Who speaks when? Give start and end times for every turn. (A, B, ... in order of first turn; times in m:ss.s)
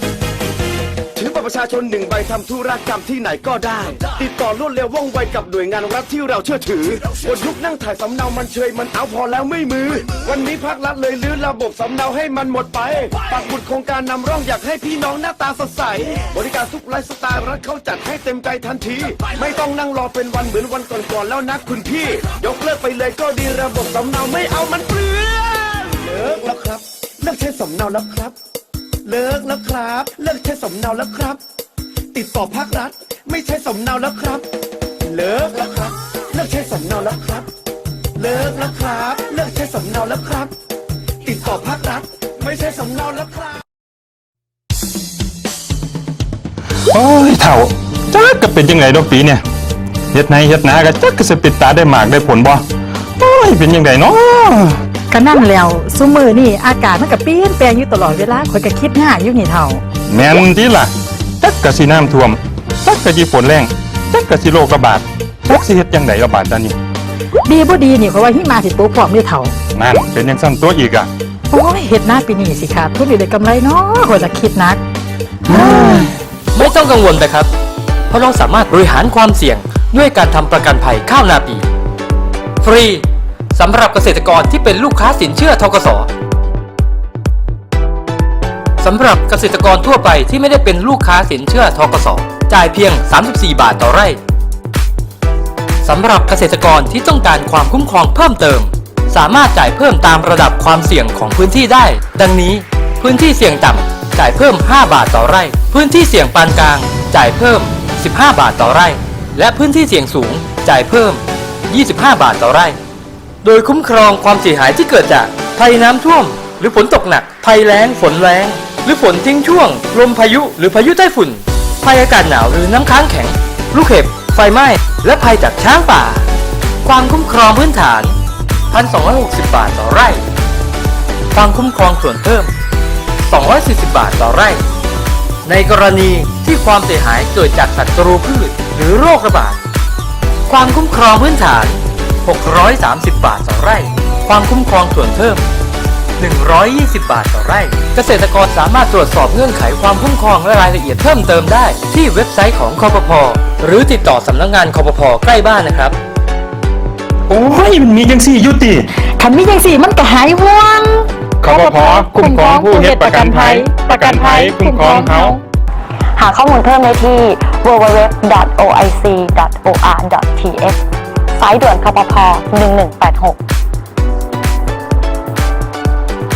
0:01.2-0:28.4 A
0:29.0-0:31.4 A
0:32.1-0:34.5 A
0:35.1-0:37.5 A
0:38.2-0:40.5 A
0:41.2-0:43.6 A
0:46.9-0:49.4 B
0:50.1-0:52.6 B
0:53.2-0:54.8 B
0:55.1-0:59.8 C
1:00.1-1:06.8 B
1:07.4-1:09.5 C
1:09.8-1:11.1 B
1:11.5-1:14.8 C
1:15.5-1:16.1 B
1:15.7-1:16.0 C
1:16.5-1:17.5 D
1:18.1-1:21.7 D
1:22.6-1:26.1 D
1:28.8-1:34.2 D
1:35.8-1:52.8 D
1:53.4-2:06.3 D
2:06.8-2:08.2 D
2:08.7-2:10.2 D
2:11.3-2:12.5 D
2:13.2-2:14.6 D
2:15.4-2:19.6 D
2:20.5-2:25.5 D
2:26.2-2:36.0 D
2:37.3-2:38.9 B
2:39.1-2:45.4 C
2:41.4-2:45.4 B
2:46.2-2:50.8 E
2:51.4-2:53.4 E